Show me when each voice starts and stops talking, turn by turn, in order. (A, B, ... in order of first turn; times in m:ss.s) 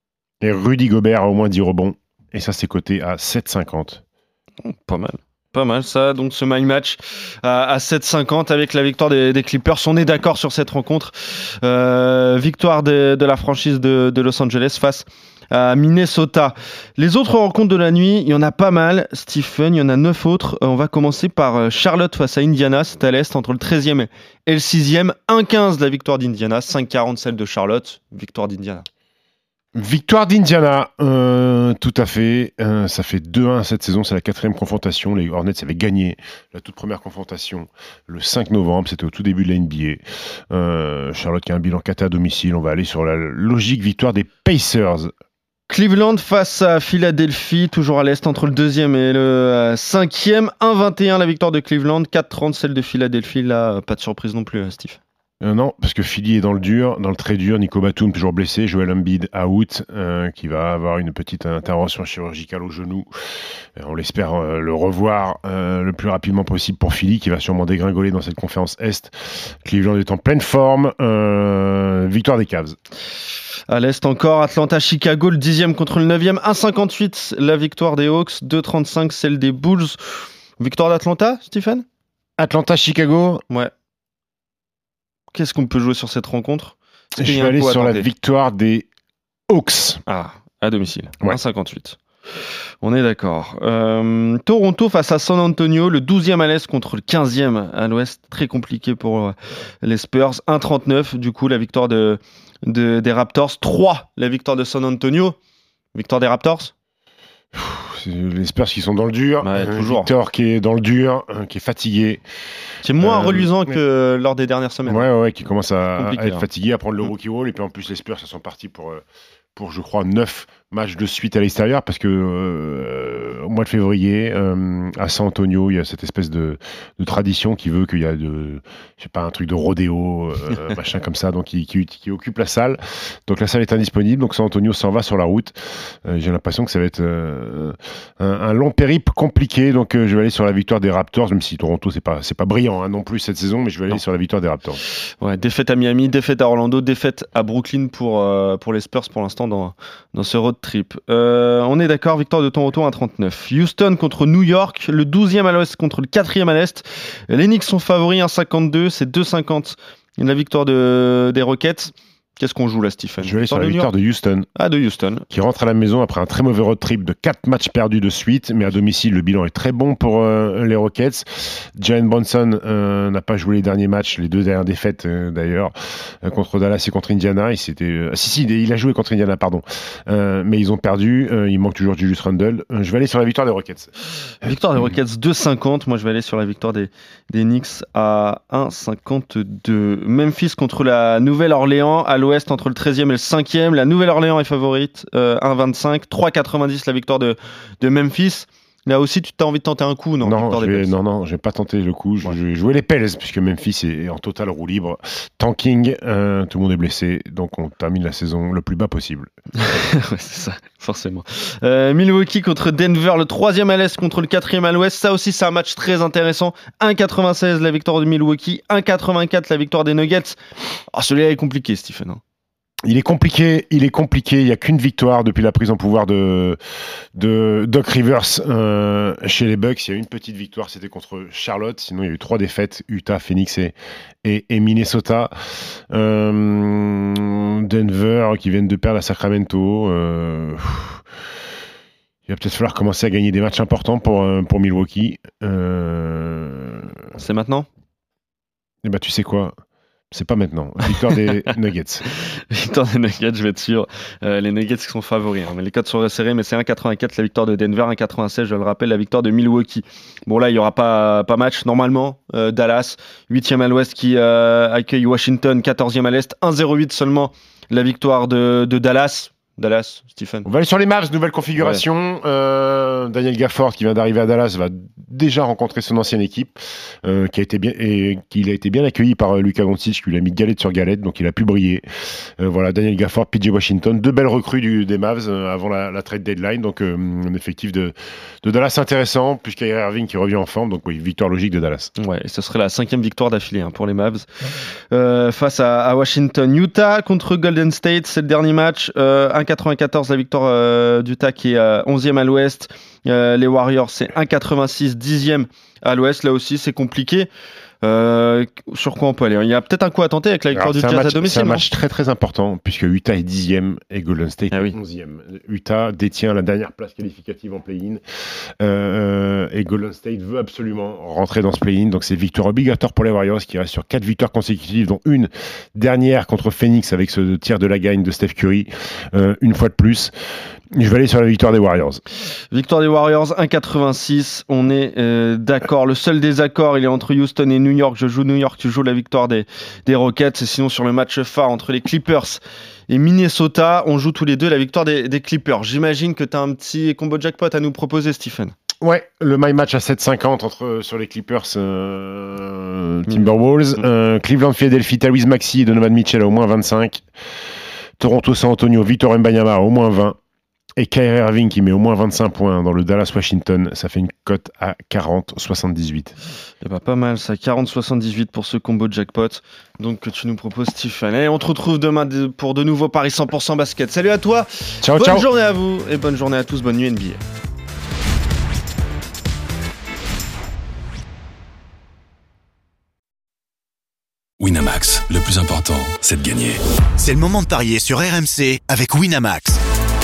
0:00.4-0:04.0 A
0:04.6-0:28.8 B
0:29.8-0:45.1 A
0:45.7-0:55.0 B
0:55.4-1:03.1 A
1:03.8-1:12.8 A
1:13.7-1:21.8 B
1:22.4-1:23.4 A
1:25.3-1:28.1 B
1:27.2-1:28.9 A
1:29.5-1:30.0 A
1:30.1-1:32.0 B
1:32.8-1:45.4 B
1:45.9-1:46.7 B
1:47.5-1:52.2 A
1:49.4-1:50.1 B
1:52.8-1:55.1 B
1:53.0-1:53.5 A
1:54.8-1:59.0 A
1:56.0-1:56.5 B
1:59.6-2:24.8 A
2:25.2-2:43.9 B
2:43.2-2:44.5 A
2:44.6-2:45.3 B
2:45.3-3:03.9 A
3:04.4-3:20.9 B
3:20.2-3:29.3 A
3:29.6-3:40.4 B
3:40.9-3:42.2 B
3:42.9-3:46.6 A
3:47.2-3:55.3 A
3:55.9-4:01.0 A
4:02.3-4:06.9 A
4:07.2-4:07.7 B
4:08.8-4:09.6 A
4:10.1-4:12.0 A
4:12.3-4:30.5 B
4:30.4-4:41.8 A
4:31.6-4:31.8 B
4:42.4-4:51.9 A
4:52.0-4:54.3 B
4:54.9-5:07.3 B
5:07.8-5:11.7 B
5:10.5-5:18.0 A
5:18.6-5:30.1 A
5:30.7-5:32.0 A
5:32.5-5:48.6 B
5:48.8-5:57.0 A
5:58.0-6:00.2 A
6:00.8-6:06.2 A
6:06.6-6:17.2 B
6:14.8-6:15.3 A
6:24.4-6:26.6 C
6:27.0-6:29.6 D